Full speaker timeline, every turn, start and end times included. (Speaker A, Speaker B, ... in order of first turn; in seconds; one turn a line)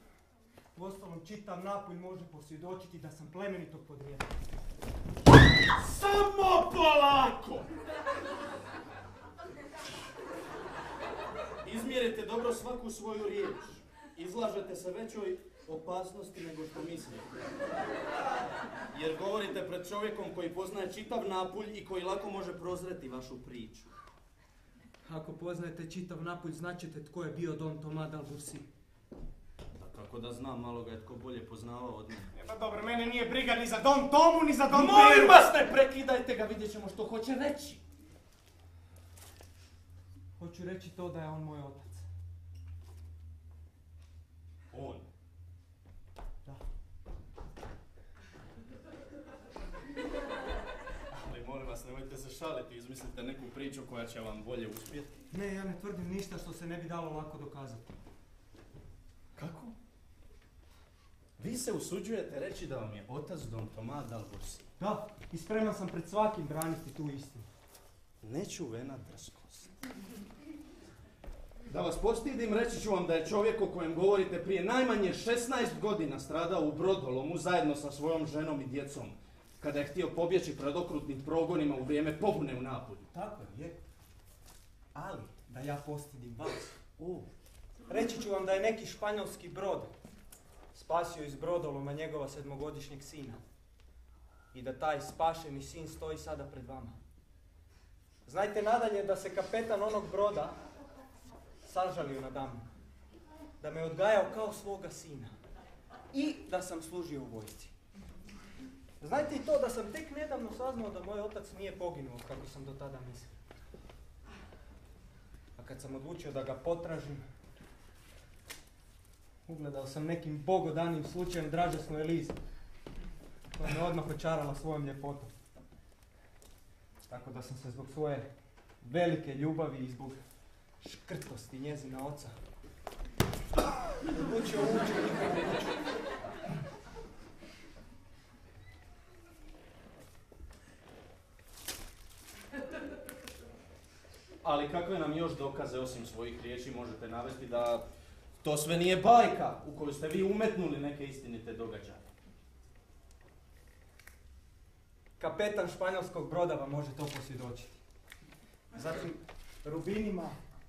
Speaker A: 0.7-4.2
Speaker B: 5.7-7.7
Speaker B: 11.6-17.3
Speaker B: 18.9-23.9
Speaker A: 25.0-28.7
Speaker B: 29.7-32.3
Speaker C: 32.3-35.5
Speaker B: 34.7-37.8
Speaker A: 40.4-42.0
Speaker B: 44.7-45.0
Speaker B: 51.1-55.1
Speaker A: 55.3-57.9
Speaker B: 59.3-59.8
Speaker B: 61.4-64.7
Speaker A: 64.8-67.5
Speaker B: 68.2-69.7
Speaker B: 71.7-83.3
Speaker A: 83.2-83.7
Speaker A: 84.9-86.8
Speaker B: 87.0-87.3
Speaker A: 87.9-89.9
Speaker A: 90.7-93.4
Speaker A: 94.5-97.0
Speaker A: 98.2-100.6
Speaker A: 101.6-102.7
Speaker A: 103.6-105.4
Speaker A: 106.1-107.7
Speaker A: 109.0-113.3
Speaker A: 115.6-117.2
Speaker A: 119.5-122.3
Speaker A: 123.5-125.3
Speaker A: 127.1-128.3
Speaker A: 128.8-130.2
Speaker A: 130.8-132.3
Speaker A: 134.1-135.7
Speaker B: 144.4-147.8
Speaker B: 148.4-152.1
Speaker A: 155.2-157.8
Speaker A: 158.7-160.4